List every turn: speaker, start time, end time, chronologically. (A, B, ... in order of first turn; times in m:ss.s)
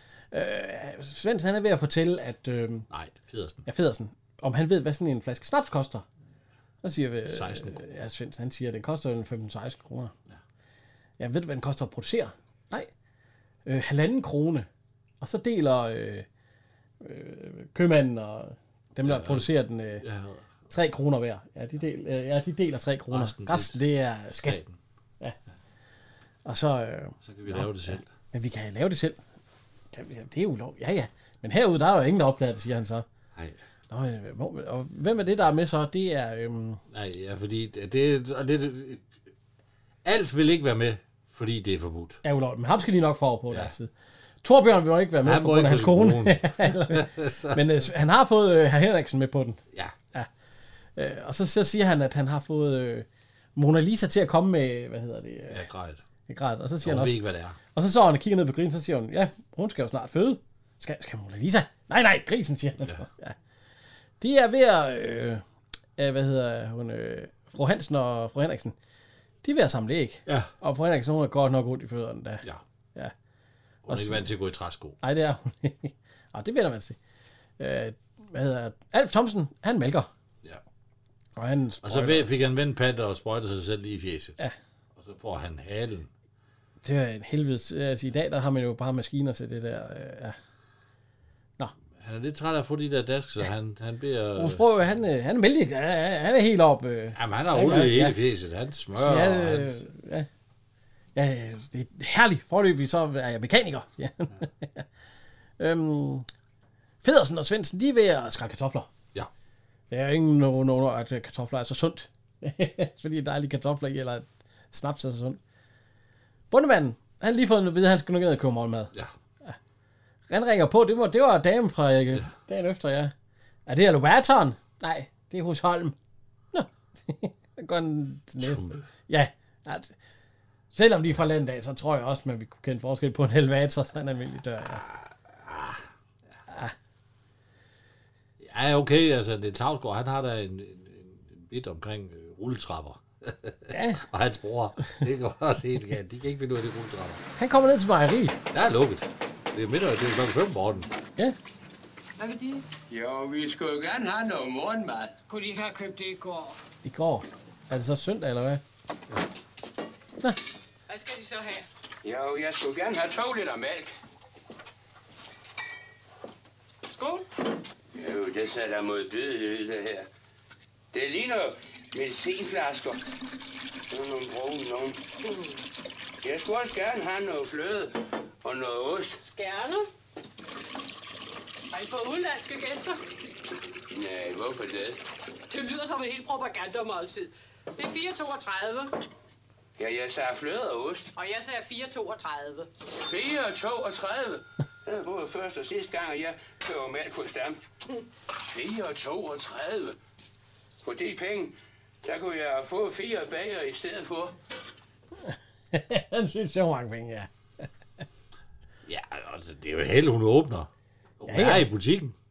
0:00.3-0:02.9 A
0:02.9-0:03.6 B
0:03.7-0:06.0 A
0:06.8-0:10.1 A
0:07.3-0:07.8 B
0:11.2-0:12.9 A
0:13.7-0:14.7 A
0:15.2-0:16.3 A
0:17.0-0:20.0 A
0:19.0-0:19.5 B
0:20.0-0:20.5 B
0:20.7-0:24.6 A
0:23.1-0:23.8 B
0:24.4-0:24.8 B
0:26.4-0:29.2 A
0:27.2-0:28.1 B
0:29.9-0:33.1 A
0:33.9-0:36.8 A
0:36.9-0:39.1 B
0:40.0-0:42.2 B
0:42.2-0:43.9 A
0:44.4-0:49.6 A
0:45.2-0:47.6 B
0:51.0-0:55.6 A
0:55.5-0:56.0 B
0:56.3-0:57.2 A
0:56.8-0:57.6 B
0:57.7-1:03.4 A
1:04.2-1:05.4 A
1:06.0-1:08.8 A
1:09.4-1:13.1 A
1:13.8-1:15.0 B
1:13.9-1:14.3 A
1:15.0-1:17.0 A
1:17.6-1:20.1 A
1:21.4-1:22.3 A
1:21.8-1:24.4 B
1:25.0-1:26.1 B
1:26.8-1:30.4 A
1:32.0-1:34.8 B
1:34.4-1:38.2 A
1:37.1-1:39.8 B
1:39.0-1:40.3 A
1:41.1-1:44.9 A
1:45.6-1:46.3 A
1:47.0-1:48.9 A
1:49.9-1:55.4 A
1:56.5-1:58.9 A
2:00.3-2:03.1 A
2:03.7-2:06.0 A
2:06.5-2:10.0 A
2:08.4-2:08.9 B
2:10.7-2:14.8 A
2:14.8-2:15.8 B
2:16.5-2:16.7 A
2:18.4-2:27.2 B
2:23.7-2:24.0 A
2:27.4-2:28.4 A
2:28.5-2:30.9 B
2:32.2-2:32.6 C
2:32.9-2:35.2 D
2:35.3-2:36.6 C
2:36.8-2:38.6 A
2:40.9-2:41.7 C
2:42.0-2:44.0 D
2:46.9-2:47.2 C
2:48.0-2:50.1 D
2:50.9-2:53.0 D
2:53.9-2:55.1 D
2:56.2-2:59.2 D
2:59.2-2:59.9 C
3:01.7-3:03.0 C
3:03.9-3:05.0 D
3:05.5-3:08.9 C
3:09.8-3:11.1 D
3:11.1-3:12.7 C
3:13.1-3:17.6 D
3:18.5-3:20.0 D
3:20.8-3:24.3 D
3:25.2-3:27.3 A
3:28.9-3:30.7 B
3:31.2-3:32.1 B
3:31.3-3:31.7 A